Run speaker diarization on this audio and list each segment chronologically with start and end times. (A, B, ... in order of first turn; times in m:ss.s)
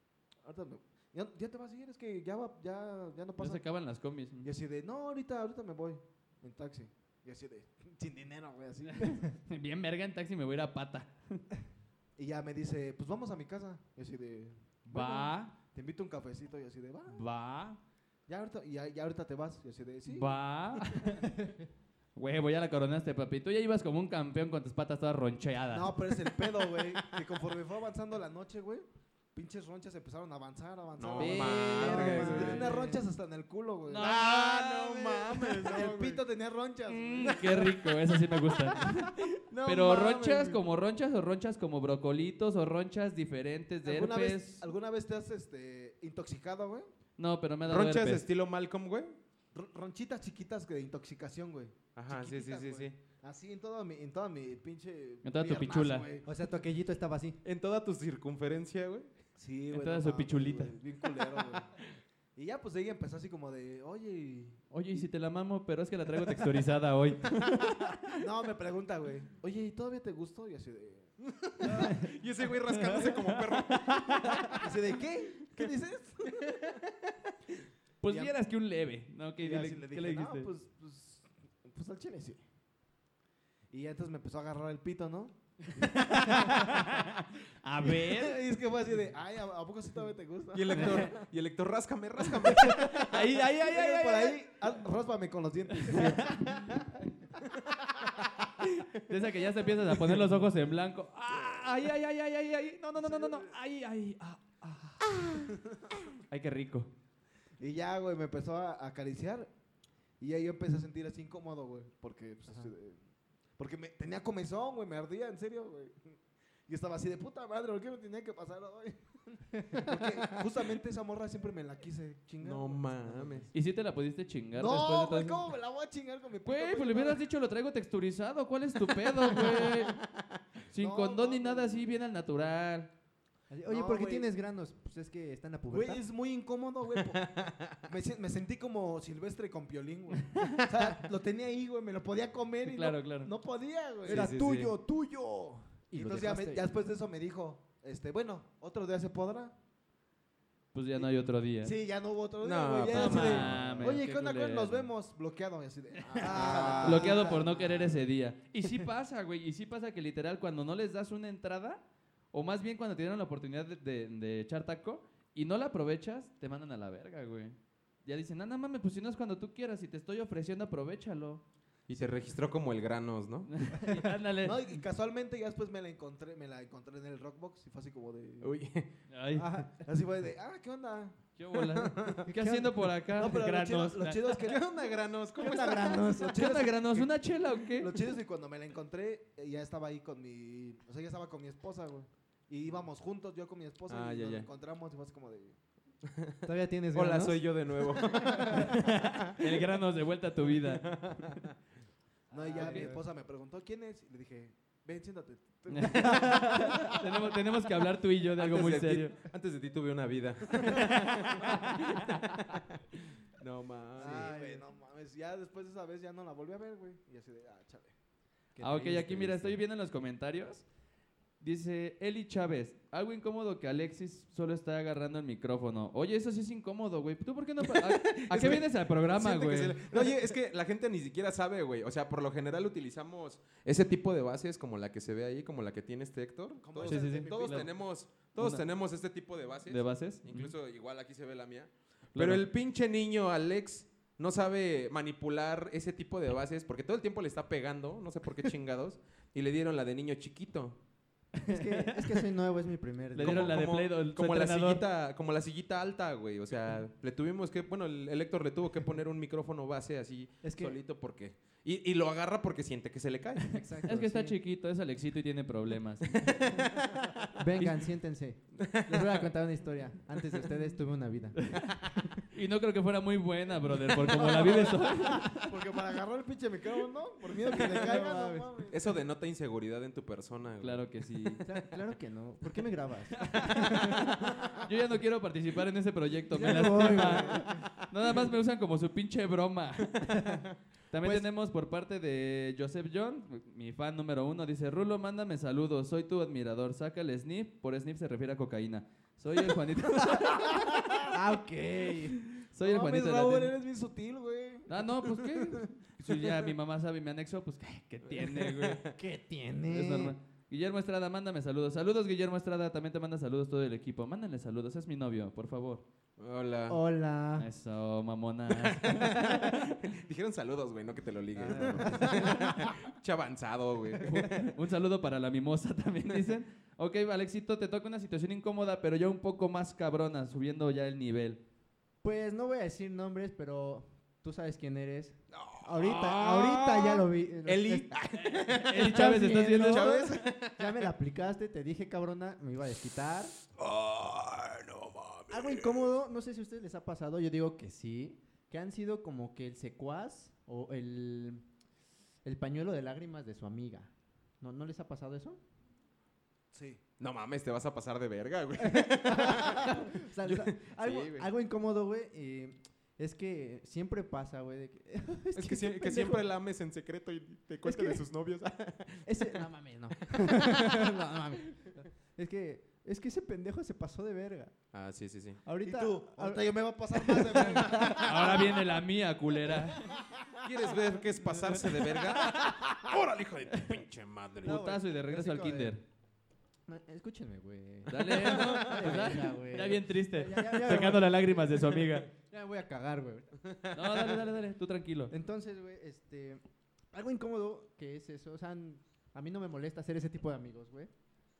0:00.4-0:03.6 A
0:03.4-0:04.5 B
0:04.4-0:09.3 A
0:09.0-0:11.4 B
0:12.2-0:17.2 A
0:14.9-0:15.5 B
0:17.1-0:17.8 B
0:18.3-0:21.3 A
0:20.1-0:21.3 B
0:22.2-0:26.3 B
0:25.7-0:34.2 A
0:31.0-0:32.8 C
0:31.2-0:32.9 B
0:31.9-0:32.9 D
0:33.9-0:35.9 B
0:33.9-0:36.2 C
0:35.5-0:38.0 A
0:36.9-0:44.7 B
0:38.7-0:40.6 A
0:43.8-0:46.9 A
0:47.2-0:48.2 B
0:47.7-0:49.2 C
0:49.5-0:56.3 A
0:51.9-0:53.0 C
0:55.2-0:56.1 B
0:56.2-0:57.4 D
0:57.4-0:59.1 C
0:59.4-1:01.8 A
0:59.7-1:00.7 B
1:02.4-1:04.6 A
1:04.7-1:07.9 B
1:08.1-1:12.1 A
1:11.6-1:14.6 C
1:11.6-1:12.1 B
1:12.7-1:14.6 B
1:14.5-1:16.8 A
1:16.4-1:16.8 C
1:18.0-1:20.5 B
1:18.0-1:18.3 A
1:19.4-1:22.4 A
1:23.7-1:27.2 A
1:25.8-1:28.4 B
1:27.8-1:31.2 A
1:30.5-1:33.2 C
1:30.7-1:31.1 B
1:32.4-1:34.4 B
1:32.5-1:38.4 A
1:35.8-1:36.8 B
1:38.6-1:45.6 B
1:41.3-1:41.6 A
1:43.0-1:43.5 A
1:46.1-1:46.9 B
1:47.6-1:49.5 A
1:50.2-1:53.0 A
1:53.6-2:03.5 A
1:59.6-1:59.9 D
2:02.4-2:03.5 C
2:03.5-2:05.5 B
2:04.5-2:07.2 A
2:06.4-2:10.0 B
2:09.2-2:10.0 A
2:10.7-2:12.9 B
2:10.7-2:11.9 A
2:13.5-2:16.0 D
2:13.6-2:14.3 A
2:15.7-2:29.5 A
2:17.0-2:17.8 C
2:22.6-2:23.3 B
2:24.0-2:24.7 C
2:24.0-2:24.8 D
2:25.9-2:26.7 D
2:30.7-2:31.7 B
2:31.6-2:38.0 A
2:32.4-2:33.8 C
2:32.9-2:34.9 B
2:33.4-2:33.8 D
2:36.1-2:51.4 B
2:36.2-2:37.2 C
2:36.2-2:37.3 D
2:51.9-2:53.5 C
2:53.5-2:54.6 B
2:54.4-2:58.5 A
2:58.4-2:58.9 C
2:59.1-2:59.6 B
2:59.3-2:59.8 D
2:59.7-3:02.2 A
3:01.4-3:04.3 B
3:01.9-3:02.2 C
3:02.3-3:02.8 D
3:03.1-3:15.6 A
3:04.3-3:06.1 C
3:05.4-3:06.6 D
3:06.2-3:07.9 B
3:13.9-3:14.5 C
3:16.1-3:16.4 C
3:16.4-3:17.4 D
3:16.9-3:19.3 C
3:18.1-3:18.7 A
3:18.6-3:20.8 B
3:20.5-3:21.5 C
3:22.3-3:23.0 D
3:22.3-3:27.3 A
3:22.6-3:22.9 B
3:25.7-3:29.2 B
3:28.4-3:32.6 C
3:30.6-3:32.3 B
3:33.2-3:34.4 C
3:34.0-3:37.9 A
3:34.0-3:34.6 D
3:38.6-3:39.6 D
3:38.6-3:40.6 B
3:41.4-3:49.8 B
3:47.6-4:10.8 C
3:56.6-3:57.7 A
3:56.8-3:57.7 B
3:58.4-3:58.6 B
3:59.7-4:00.5 B
4:02.1-4:02.5 B
4:11.4-4:12.2 B
4:11.5-4:13.6 D
4:13.1-4:14.8 B
4:13.2-4:23.6 C
4:20.4-4:20.8 D
4:23.5-4:24.4 D
4:23.9-4:26.4 B
4:26.1-4:27.3 C
4:27.4-4:32.2 D
4:28.6-4:29.2 C
4:31.6-4:31.8 C
4:32.3-4:35.4 B
4:34.0-4:38.9 A
4:34.3-4:35.3 D
4:37.5-4:38.5 D
4:38.7-4:41.6 C
4:40.6-4:41.4 B
4:41.4-4:44.3 D
4:43.2-4:50.2 B
4:43.5-4:44.3 C
4:46.3-4:47.7 D
4:50.1-4:50.4 D
4:50.9-5:00.7 B
5:01.1-5:02.2 D
5:02.4-5:03.5 B
5:02.6-5:06.3 A
5:04.7-5:08.8 B
5:08.1-5:08.9 C
5:08.9-5:10.2 D
5:09.7-5:15.8 B
5:16.2-5:16.8 C
5:16.7-5:17.5 D
5:17.4-5:19.6 B
5:18.6-5:24.3 C
5:21.4-5:22.5 D
5:21.5-5:22.0 A
5:24.0-5:31.4 B
5:24.1-5:24.5 D
5:32.0-5:38.0 D
5:35.3-5:40.9 C
5:38.2-5:40.0 B
5:38.7-5:43.4 D
5:43.6-5:45.9 C
5:45.3-5:51.4 D
5:52.2-5:55.4 D
5:56.5-5:56.8 A
5:57.0-6:01.3 C
5:58.6-6:06.2 D
6:05.3-6:09.4 C
6:07.6-6:08.0 D
6:09.0-6:14.5 D
6:10.2-6:10.9 C
6:14.7-6:15.4 C
6:15.4-6:18.5 D
6:15.6-6:18.6 A
6:18.0-6:19.8 B
6:20.4-6:24.6 C
6:24.4-6:25.8 D
6:24.4-6:25.8 B
6:26.7-6:33.3 D
6:27.9-6:32.1 B
6:28.2-6:29.1 C
6:33.7-6:35.1 B
6:35.1-6:40.9 D